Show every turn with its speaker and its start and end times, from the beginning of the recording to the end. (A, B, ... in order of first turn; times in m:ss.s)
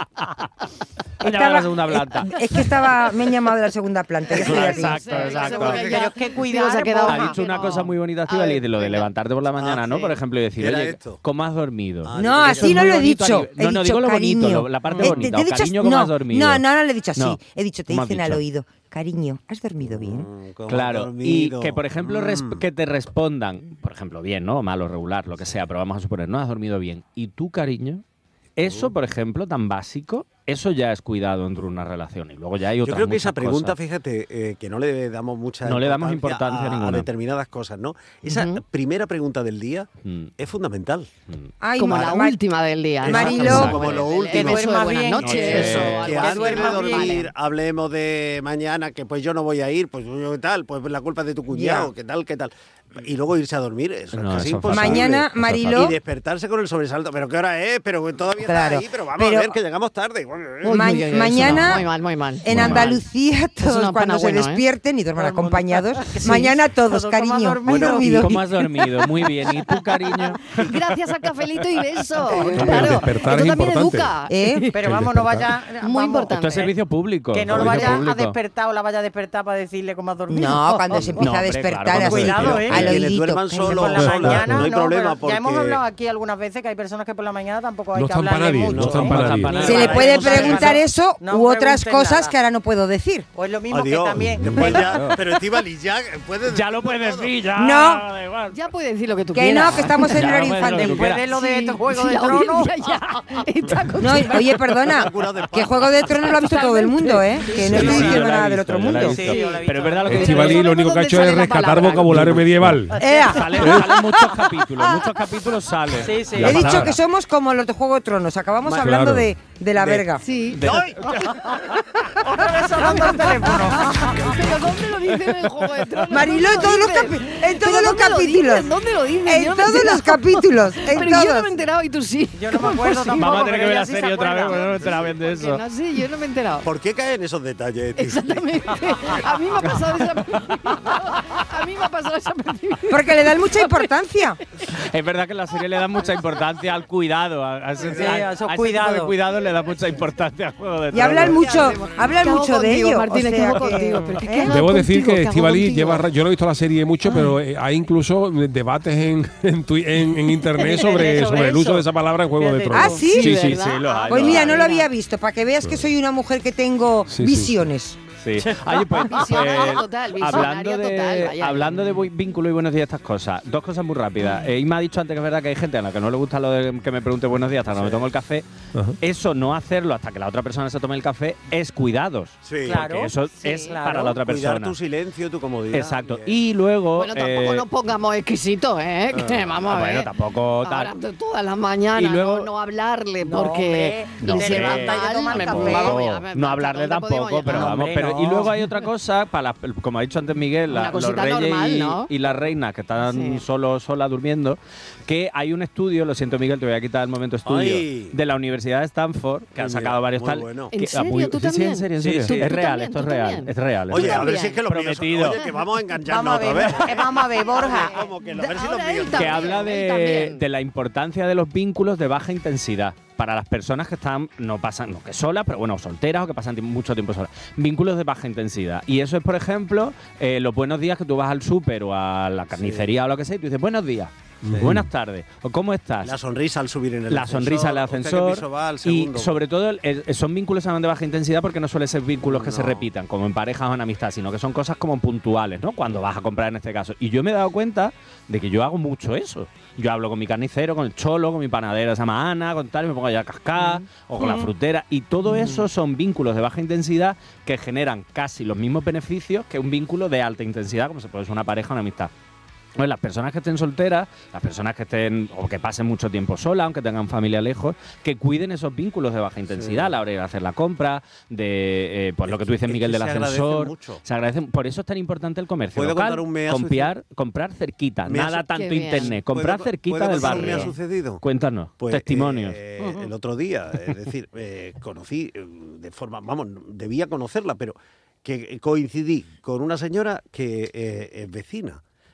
0:01.2-0:02.7 A
0:01.2-0:05.2 B
0:04.3-0:06.0 A
0:04.4-0:06.1 C
0:04.4-0:08.6 D
0:05.2-0:07.4 E
0:07.0-0:16.6 A
0:09.5-0:11.2 C
0:12.0-0:13.2 C
0:12.2-0:20.3 B
0:14.8-0:15.1 E
0:15.0-0:15.3 C
0:17.1-0:18.4 A
0:19.8-0:22.6 C
0:20.7-0:28.0 A
0:28.6-0:33.8 A
0:28.6-0:28.9 C
0:32.8-0:41.1 C
0:35.6-0:37.1 A
0:38.3-0:38.6 D
0:40.0-0:40.3 A
0:41.6-0:42.4 B
0:41.8-0:47.3 D
0:43.0-1:01.4 C
0:43.0-0:43.9 B
0:43.3-0:44.1 A
0:44.2-0:47.3 E
0:45.2-0:46.1 A
0:54.1-0:55.9 A
0:54.7-0:56.0 B
0:58.4-0:59.6 B
1:00.6-1:03.0 D
1:00.6-1:01.9 B
1:01.3-1:01.8 A
1:02.4-1:08.4 B
1:02.5-1:03.0 A
1:03.6-1:04.6 D
1:05.2-1:08.4 E
1:07.6-1:10.7 A
1:09.5-1:09.8 D
1:10.5-1:14.7 D
1:12.5-1:14.1 F
1:12.5-1:12.9 A
1:14.3-1:14.6 B
1:14.7-1:16.7 E
1:14.8-1:15.5 F
1:15.8-1:16.7 D
1:16.3-1:18.4 A
1:17.3-1:21.3 E
1:17.5-1:18.0 F
1:20.3-1:24.1 B
1:20.9-1:23.0 A
1:22.0-1:22.9 E
1:22.0-1:25.8 C
1:23.6-1:32.3 E
1:24.0-1:24.7 F
1:27.9-1:29.8 F
1:28.5-1:30.8 C
1:28.7-1:30.7 A
1:29.6-1:33.3 B
1:33.3-1:35.0 E
1:33.7-1:37.3 C
1:34.4-1:34.8 F
1:34.6-1:35.2 A
1:36.4-1:38.6 A
1:37.5-1:38.0 B
1:38.5-1:40.2 D
1:39.3-1:41.1 B
1:40.0-1:41.3 A
1:40.6-1:42.7 E
1:41.3-1:44.5 D
1:44.0-1:49.6 B
1:44.9-1:46.3 C
1:46.2-1:47.2 D
1:47.5-1:50.6 A
1:47.7-1:48.3 C
1:47.7-1:48.2 E
1:49.0-1:50.4 E
1:50.0-1:53.0 F
1:50.2-1:52.2 D
1:51.7-1:57.0 A
1:52.9-1:53.3 E
1:53.0-1:54.1 B
1:53.6-1:53.9 F
1:56.0-1:56.7 E
1:56.4-2:00.2 B
1:56.5-1:56.8 F
1:58.6-1:59.3 F
1:59.7-2:00.1 C
2:00.2-2:00.6 D
2:00.5-2:01.4 A
2:00.6-2:01.0 C
2:02.2-2:04.4 E
2:02.8-2:13.2 D
2:06.1-2:08.7 B
2:09.2-2:11.6 B
2:12.3-2:15.1 E
2:13.2-2:15.6 A
2:15.1-2:16.7 D
2:16.6-2:19.2 C
2:18.0-2:23.8 D
2:22.9-2:24.4 B
2:24.8-2:31.8 A
2:27.8-2:28.2 C
2:27.9-2:29.1 E
2:30.9-2:34.7 B
2:31.2-2:36.0 D
2:34.5-2:43.6 F
2:40.5-2:43.0 E
2:42.7-2:43.6 B
2:43.0-2:44.9 D
2:43.5-2:44.7 A
2:44.1-2:48.0 B
2:45.6-2:45.9 F
2:47.1-2:47.6 F
2:48.2-2:58.4 A
2:48.4-2:49.1 E
2:49.0-2:52.0 D
2:57.7-2:58.1 C
2:59.0-3:04.8 A
3:02.4-3:02.9 C
3:02.6-3:04.2 E
3:04.1-3:06.4 C
3:05.7-3:07.6 A
3:07.0-3:10.1 D
3:09.1-3:09.4 C
3:09.6-3:10.9 A
3:10.6-3:17.8 D
3:12.0-3:12.5 A
3:13.2-3:16.0 E
3:14.2-3:35.4 A
3:17.5-3:18.7 E
3:20.7-3:22.1 D
3:23.0-3:23.4 D
3:27.4-3:28.2 C
3:29.6-3:30.7 C
3:30.7-3:34.6 D
3:32.0-3:32.6 C
3:33.9-3:39.7 C
3:36.0-3:38.0 E
3:37.7-3:40.4 D
3:39.1-3:56.1 A
3:52.5-3:52.9 C
3:54.4-3:54.9 F
3:56.0-3:59.4 C
3:57.1-4:22.1 A
4:02.2-4:02.9 C
4:13.6-4:13.8 D
4:22.8-4:42.6 A
4:29.5-4:29.9 C
4:32.2-4:34.0 C
4:35.7-4:36.9 C
4:38.0-4:41.2 C
4:38.5-4:39.1 D
4:40.2-4:40.7 D
4:41.8-4:51.8 C
4:42.8-4:43.1 E